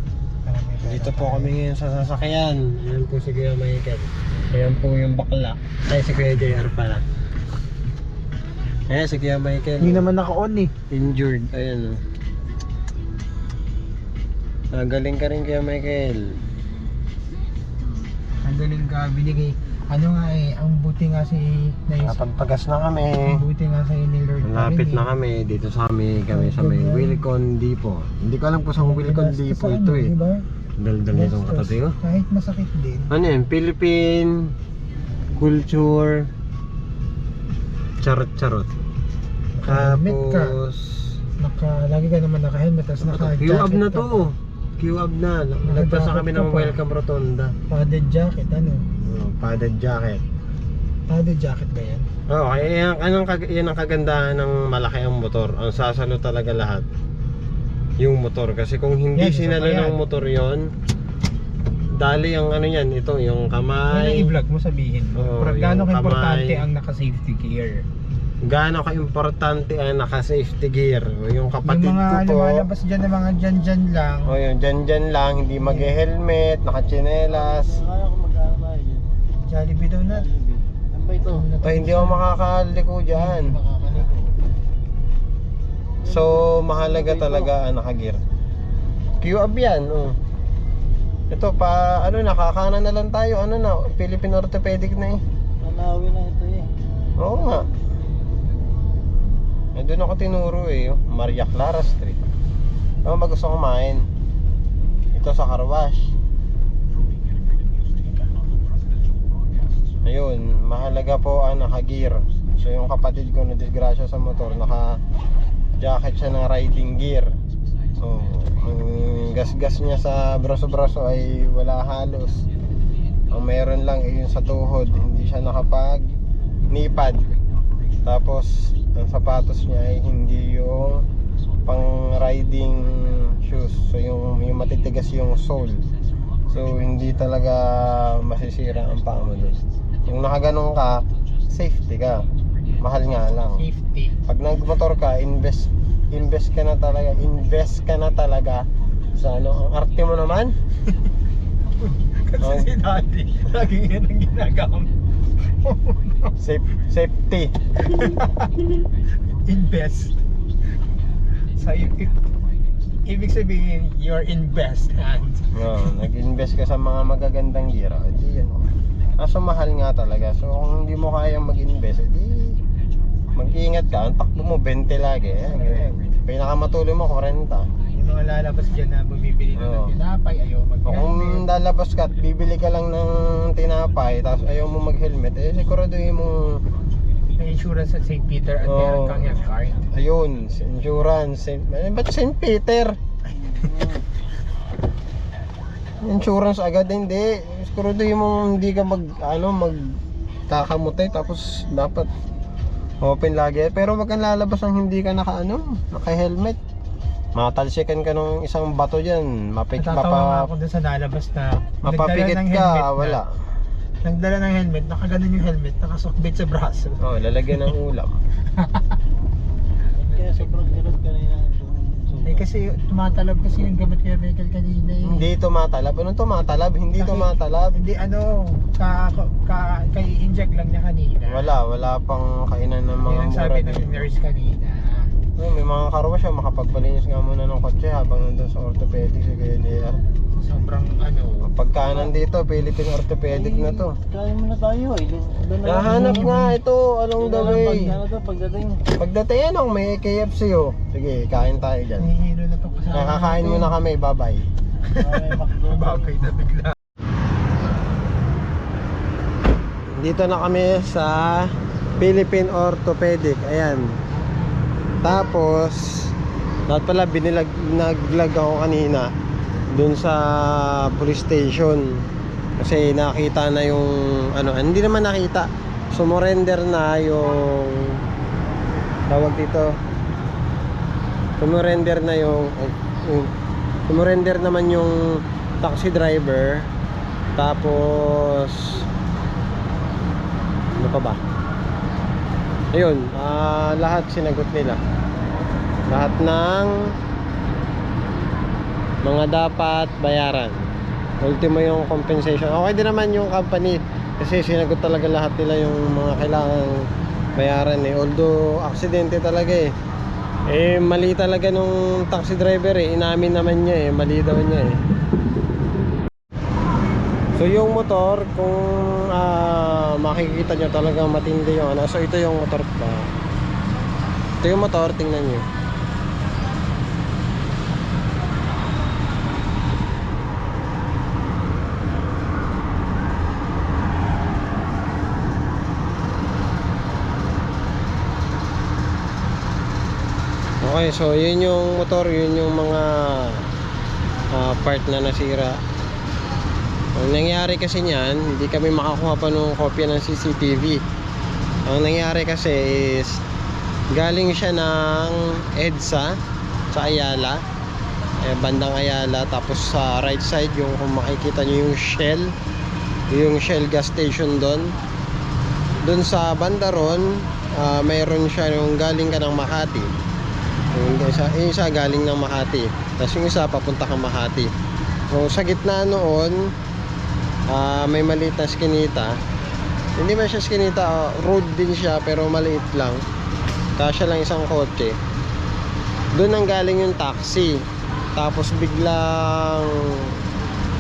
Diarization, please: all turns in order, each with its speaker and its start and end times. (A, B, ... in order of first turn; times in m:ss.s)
0:00.4-0:01.5 A
0:00.8-0:07.0 B
0:08.9-0:10.1 B
0:09.8-0:10.7 A
0:10.9-0:12.0 B
0:14.7-0:16.3 B
0:18.4-0:22.5 A
0:22.0-0:23.4 B
0:23.2-0:25.1 A
0:24.4-0:30.1 B
0:26.3-0:27.2 A
0:28.8-0:30.4 A
0:30.8-0:32.0 B
0:31.1-0:33.1 A
0:33.1-0:34.5 B
0:35.4-0:36.3 B
0:38.0-0:38.7 B
0:39.5-0:40.6 A
0:39.6-0:41.2 B
0:41.4-0:44.3 A
0:43.0-0:47.5 B
0:45.6-0:46.8 A
0:47.7-0:48.8 A
0:49.0-0:50.2 B
0:51.1-0:52.1 A
0:52.3-0:56.8 B
0:58.0-1:00.7 B
0:59.2-1:00.0 A
1:02.0-1:04.3 B
1:03.9-1:07.8 A
1:05.2-1:06.6 B
1:08.4-1:12.7 B
1:11.6-1:14.4 A
1:14.3-1:17.8 B
1:15.6-1:15.9 A
1:17.3-1:19.1 C
1:19.5-1:20.3 A
1:20.1-1:21.5 C
1:21.3-1:22.2 A
1:21.6-1:23.6 B
1:23.1-1:24.3 A
1:26.0-1:27.5 C
1:26.0-1:28.2 B
1:29.2-1:30.2 B
1:31.3-1:35.2 B
1:35.6-1:36.7 C
1:37.2-1:37.7 B
1:39.8-1:42.2 B
1:43.0-1:44.0 B
1:45.1-1:46.1 B
1:50.0-1:55.0 B
1:55.8-1:57.3 B
1:58.0-2:02.4 B
2:03.3-2:06.1 B
2:06.7-2:07.2 B
2:08.0-2:11.0 B
2:11.7-2:15.8 B
2:16.5-2:22.2 B
2:22.8-2:23.6 B
2:23.6-2:24.2 A
2:24.2-2:30.5 B
2:31.8-2:34.9 A
2:32.4-2:32.7 B
2:35.6-2:36.3 A
2:36.4-2:37.5 B
2:37.8-2:38.6 A
2:39.3-2:40.2 A
2:41.5-2:42.1 A
2:43.1-2:46.0 A
2:45.6-2:52.6 B
2:53.3-2:57.7 B
2:55.6-2:55.9 A
2:57.9-3:01.4 A
2:59.6-3:00.0 B
3:00.8-3:06.6 B
3:07.4-3:09.9 A
3:08.6-3:13.0 B
3:13.4-3:14.0 C
3:16.0-3:19.8 B
3:20.5-3:22.1 B
3:23.0-3:26.6 B
3:27.3-3:30.5 B
3:29.8-3:33.2 A
3:31.8-3:33.3 B
3:34.0-3:37.0 A
3:37.0-3:38.2 B
3:39.9-3:42.5 C
3:42.2-3:45.3 A
3:45.0-3:47.8 B
3:47.0-3:51.5 A
3:51.2-3:54.1 B
3:53.0-3:55.1 A
3:55.4-4:00.0 B
4:00.3-4:01.5 A
4:01.4-4:04.0 B
4:03.3-4:06.2 C
4:05.6-4:08.0 B
4:05.8-4:06.6 A
4:07.2-4:08.9 C
4:07.4-4:07.9 A
4:08.9-4:12.1 B
4:12.0-4:13.7 A
4:12.9-4:14.5 B
4:14.9-4:16.8 A
4:15.0-4:16.1 C
4:19.9-4:23.9 B
4:25.0-4:26.1 B
4:26.7-4:29.1 B
4:29.7-4:32.0 B
4:32.6-4:38.0 B
4:39.1-4:39.7 B
4:41.4-4:43.3 B
4:43.9-4:45.0 B
4:45.6-4:46.7 B
4:47.4-4:48.9 B
4:50.7-4:51.2 B
4:52.7-4:54.8 B
4:55.9-4:56.7 B
4:59.0-5:00.6 B
5:01.2-5:06.8 B
5:07.4-5:09.7 B
5:10.5-5:14.8 B
5:17.4-5:23.1 B
5:24.4-5:25.4 B
5:40.6-5:43.5 B
5:44.3-5:45.6 B
5:47.0-5:50.8 B
5:51.7-5:53.2 B
5:53.9-5:56.1 B
5:56.7-5:57.4 B
5:58.2-6:02.3 B
6:03.1-6:04.8 B
6:05.8-6:09.9 B
6:10.7-6:14.5 B
6:15.1-6:16.4 B
6:17.5-6:19.1 B
6:20.0-6:23.0 B
6:23.8-6:25.0 B
6:26.2-6:27.6 B
6:28.2-6:30.2 B